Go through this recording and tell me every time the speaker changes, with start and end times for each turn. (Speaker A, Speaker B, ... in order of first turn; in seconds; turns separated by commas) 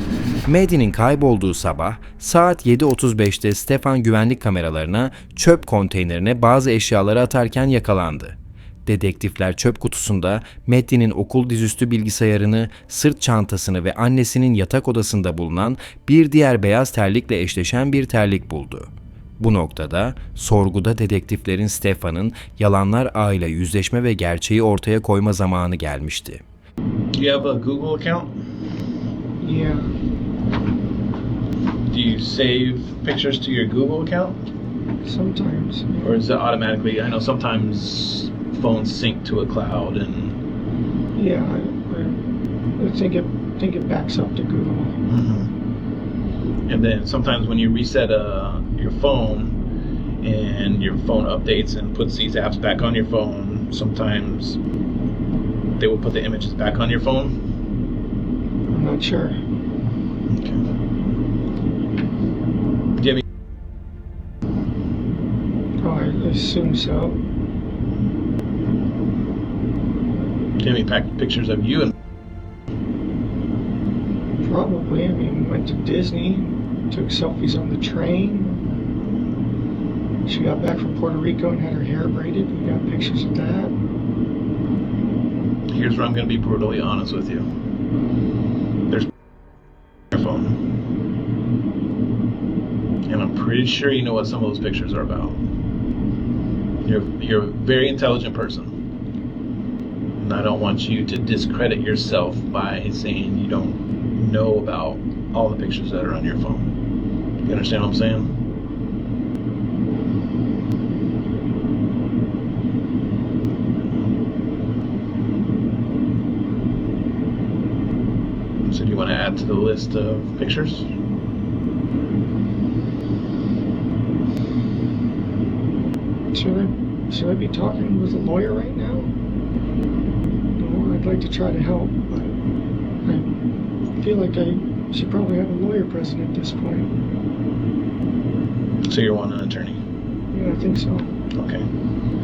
Speaker A: 0.5-26.4, Speaker B: 27.1-28.4, Speaker C: 29.4-30.0, Speaker B: 31.9-34.4, Speaker C: 35.0-36.2, Speaker B: 36.0-40.4, Speaker C: 41.1-42.2, Speaker C: 42.8-44.9, Speaker B: 45.1-45.5, Speaker B: 46.7-49.6, Speaker B: 50.2-54.6, Speaker B: 55.8-57.4, Speaker C: 58.7-59.4, Speaker B: 60.3-60.6, Speaker B: 63.0-63.2, Speaker C: 65.8-67.2, Speaker B: 70.6-71.9, Speaker C: 74.4-78.6, Speaker C: 80.3-83.7, Speaker B: 85.7-87.5, Speaker B: 90.1-90.6, Speaker B: 93.1-95.4, Speaker B: 96.8-98.8, Speaker B: 100.2-106.8, Speaker B: 107.4-108.4, Speaker B: 118.7-120.9, Speaker C: 126.3-129.1, Speaker C: 130.6-132.4, Speaker C: 133.0-133.4, Speaker C: 134.0-136.9, Speaker B: 138.8-139.8, Speaker C: 140.3-141.1, Speaker B: 141.4-141.7